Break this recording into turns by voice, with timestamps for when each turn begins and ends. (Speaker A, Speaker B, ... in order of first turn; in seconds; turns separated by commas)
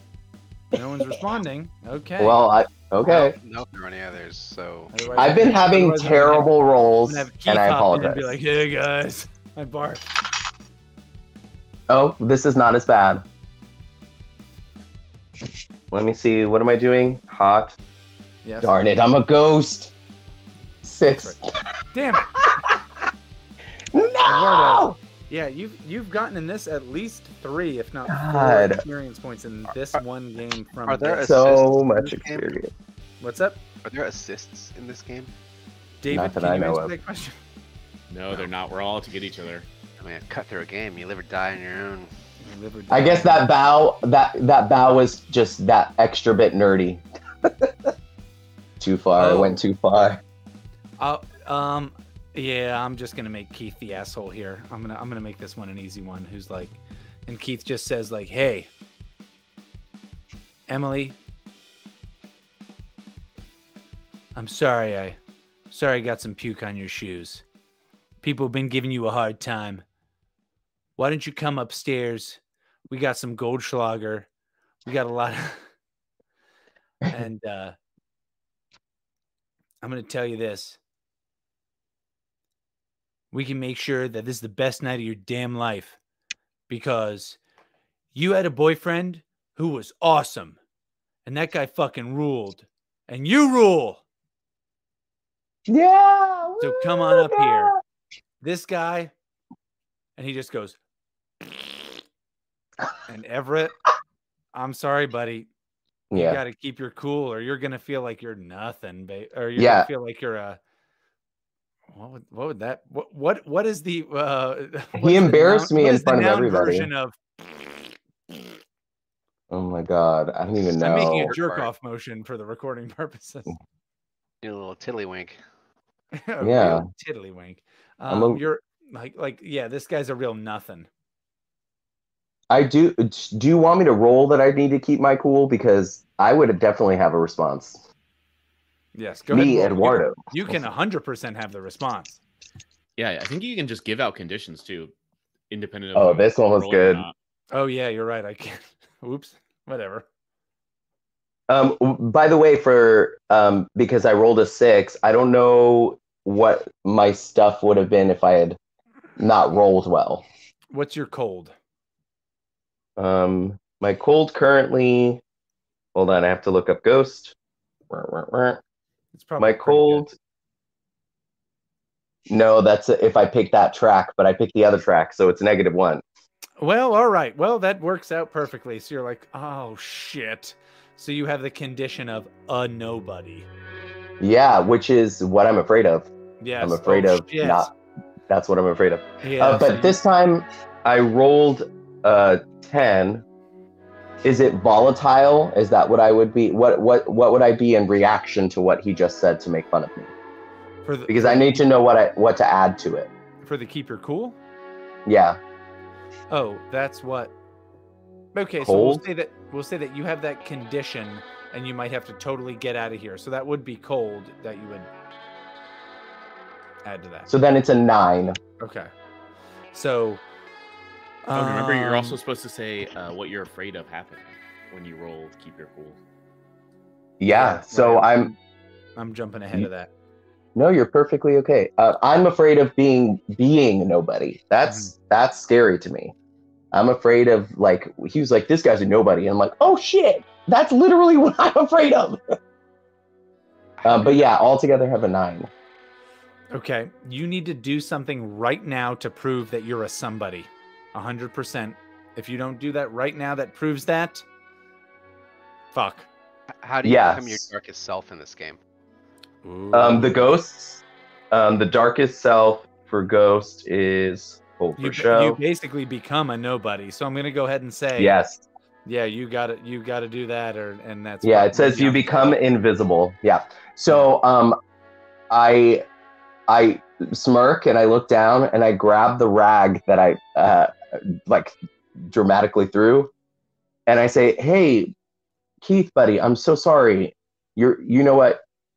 Speaker A: 0.7-2.4, Speaker B: 2.2-3.3, Speaker C: 3.0-5.2, Speaker A: 4.9-6.5, Speaker B: 5.2-8.3, Speaker A: 7.0-10.0, Speaker B: 11.9-13.2, Speaker B: 15.9-17.8, Speaker A: 18.4-18.7, Speaker B: 18.6-19.9, Speaker B: 20.8-21.4, Speaker A: 21.9-22.4, Speaker B: 23.9-25.0, Speaker A: 24.2-31.3, Speaker B: 28.1-28.8, Speaker C: 30.8-32.5, Speaker B: 31.2-32.7, Speaker A: 33.2-33.6, Speaker C: 33.8-35.3, Speaker A: 36.0-37.4, Speaker B: 36.1-36.9, Speaker D: 38.1-39.7, Speaker C: 40.0-42.1, Speaker A: 42.4-43.5, Speaker B: 42.9-47.7, Speaker B: 48.8-50.2, Speaker A: 49.2-49.6, Speaker A: 51.0-58.7, Speaker A: 60.7-61.1, Speaker A: 64.3-65.2, Speaker A: 65.7-67.4, Speaker A: 68.2-69.8, Speaker A: 71.0-74.3, Speaker A: 74.8-75.7, Speaker A: 77.1-77.8, Speaker A: 79.8-80.8, Speaker A: 83.3-86.0, Speaker A: 86.7-87.4, Speaker A: 88.1-90.6, Speaker A: 91.2-94.0, Speaker B: 95.7-97.8, Speaker A: 96.6-97.7, Speaker A: 98.4-99.1, Speaker A: 100.2-100.8, Speaker A: 101.4-101.7, Speaker A: 103.0-103.7, Speaker A: 104.5-105.5, Speaker B: 106.1-106.4, Speaker A: 106.1-110.6, Speaker B: 109.5-109.9, Speaker A: 111.9-117.9, Speaker B: 115.0-116.9, Speaker B: 119.5-121.3, Speaker A: 120.8-123.5, Speaker C: 121.3-121.7, Speaker C: 124.4-125.4, Speaker A: 126.1-130.9, Speaker B: 126.4-126.9, Speaker B: 128.1-128.4, Speaker B: 132.5-137.8, Speaker A: 138.9-142.2, Speaker B: 139.3-140.6, Speaker D: 143.0-144.9, Speaker D: 145.5-147.1, Speaker B: 145.9-147.0, Speaker A: 147.5-150.1, Speaker B: 151.5-158.6, Speaker B: 159.2-160.2, Speaker A: 160.7-161.5, Speaker B: 163.0-165.2, Speaker B: 165.9-167.3, Speaker B: 167.9-168.6, Speaker A: 169.1-170.1, Speaker B: 169.4-170.1, Speaker B: 172.3-176.0, Speaker A: 176.6-183.5, Speaker B: 184.2-186.1, Speaker A: 186.4-187.7, Speaker B: 186.6-187.7, Speaker B: 188.3-193.2, Speaker A: 189.2-190.0, Speaker B: 194.2-200.1, Speaker A: 200.8-201.8, Speaker B: 201.1-203.1, Speaker A: 203.4-204.4, Speaker B: 205.1-205.4, Speaker A: 206.3-207.3, Speaker A: 208.3-214.9, Speaker B: 208.6-209.0, Speaker A: 216.8-217.3, Speaker B: 217.3-218.4, Speaker A: 218.6-218.9, Speaker A: 219.7-220.2, Speaker A: 221.2-222.2, Speaker D: 221.3-226.0, Speaker B: 227.2-228.3, Speaker A: 227.3-228.4, Speaker A: 228.9-229.9, Speaker B: 230.5-236.1, Speaker A: 234.7-234.9, Speaker B: 236.7-242.2, Speaker C: 243.8-244.3, Speaker B: 243.8-245.5, Speaker A: 246.5-254.2, Speaker A: 255.7-256.1, Speaker C: 256.6-258.6, Speaker B: 256.8-257.5, Speaker A: 259.4-260.2, Speaker B: 259.7-265.4, Speaker A: 264.8-268.1, Speaker B: 268.0-268.4, Speaker A: 268.8-272.3, Speaker B: 271.2-274.6, Speaker B: 275.3-275.8, Speaker B: 276.5-281.5, Speaker B: 282.1-283.1, Speaker B: 283.9-284.9, Speaker B: 285.6-288.4